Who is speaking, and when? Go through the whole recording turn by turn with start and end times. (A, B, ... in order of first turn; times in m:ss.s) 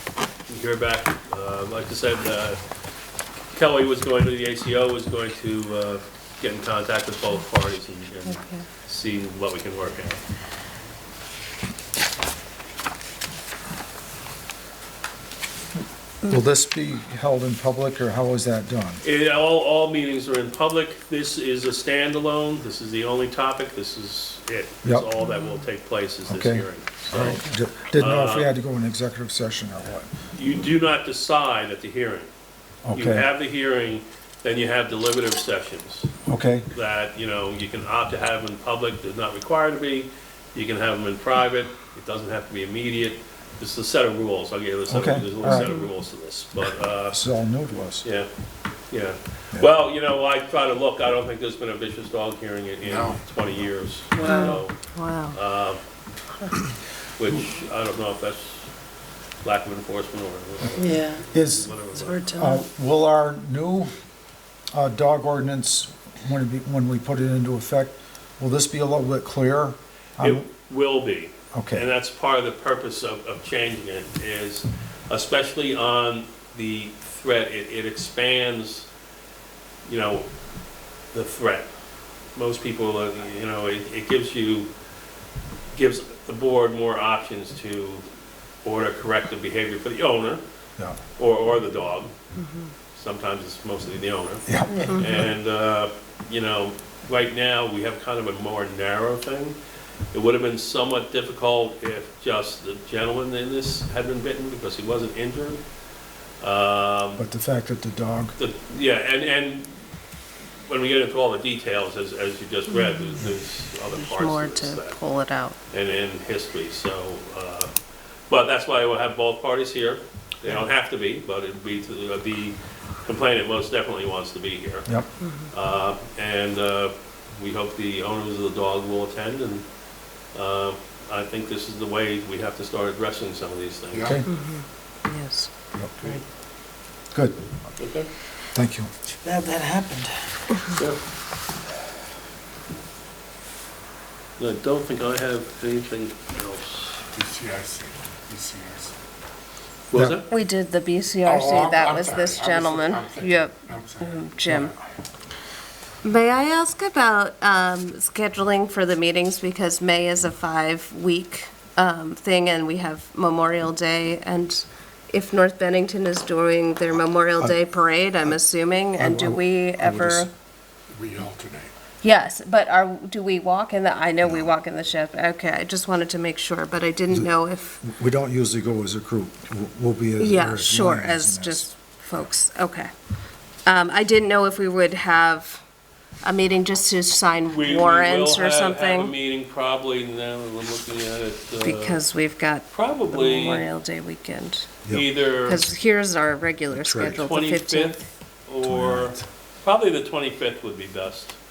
0:00.5-0:02.6 A
0:03.5-0:10.2 A
0:08.2-0:08.6 B
0:16.2-0:19.0 C
0:19.0-0:28.5 A
0:24.8-0:25.1 C
0:26.3-0:30.1 C
0:30.3-0:32.3 A
0:32.8-0:33.3 C
0:32.9-0:36.1 A
0:36.3-0:36.6 C
0:36.7-0:47.2 A
0:44.9-0:45.8 C
0:45.6-0:45.9 B
0:47.1-0:48.0 C
0:48.0-0:48.3 A
0:48.9-0:54.8 A
0:52.8-0:53.2 D
0:54.1-0:54.6 E
0:54.2-0:55.4 B
0:55.3-0:55.8 A
0:57.2-0:58.7 A
0:59.4-1:02.4 A
1:00.8-1:01.2 E
1:01.3-1:01.7 C
1:01.9-1:02.6 E
1:02.2-1:03.9 C
1:04.7-1:10.4 C
1:10.2-1:18.9 A
1:11.5-1:11.8 C
1:19.8-1:20.3 A
1:21.1-1:21.7 A
1:22.3-1:24.7 A
1:25.7-1:28.1 A
1:28.6-1:30.4 A
1:31.1-1:32.1 A
1:32.4-1:32.7 B
1:32.9-1:39.6 A
1:34.4-1:35.0 C
1:40.1-1:45.6 A
1:46.4-1:47.3 A
1:47.2-1:48.3 C
1:48.4-1:49.7 A
1:50.6-1:55.0 A
1:52.7-1:53.2 B
1:53.9-1:55.6 B
1:55.7-1:57.7 A
1:58.3-2:05.0 A
2:05.2-2:05.5 B
2:05.5-2:09.6 A
2:10.3-2:14.2 A
2:13.9-2:14.2 D
2:14.2-2:15.5 B
2:17.1-2:17.4 C
2:17.8-2:18.1 A
2:18.5-2:18.9 C
2:19.2-2:20.6 E
2:20.7-2:21.0 A
2:24.4-2:27.0 A
2:27.1-2:28.9 D
2:29.9-2:30.3 A
2:29.9-2:30.2 C
2:30.3-2:34.7 B
2:31.2-2:34.8 D
2:36.0-2:50.3 B
2:49.0-2:50.3 C
2:50.9-2:51.7 D
2:52.0-2:57.8 B
2:57.8-3:01.7 C
3:00.2-3:02.9 B
3:03.6-3:05.6 B
3:06.2-3:09.1 B
3:07.5-3:12.0 A
3:11.6-3:14.8 B
3:12.7-3:13.7 A
3:14.9-3:15.7 A
3:15.4-3:18.1 B
3:16.7-3:17.2 C
3:17.1-3:21.4 A
3:18.6-3:19.2 C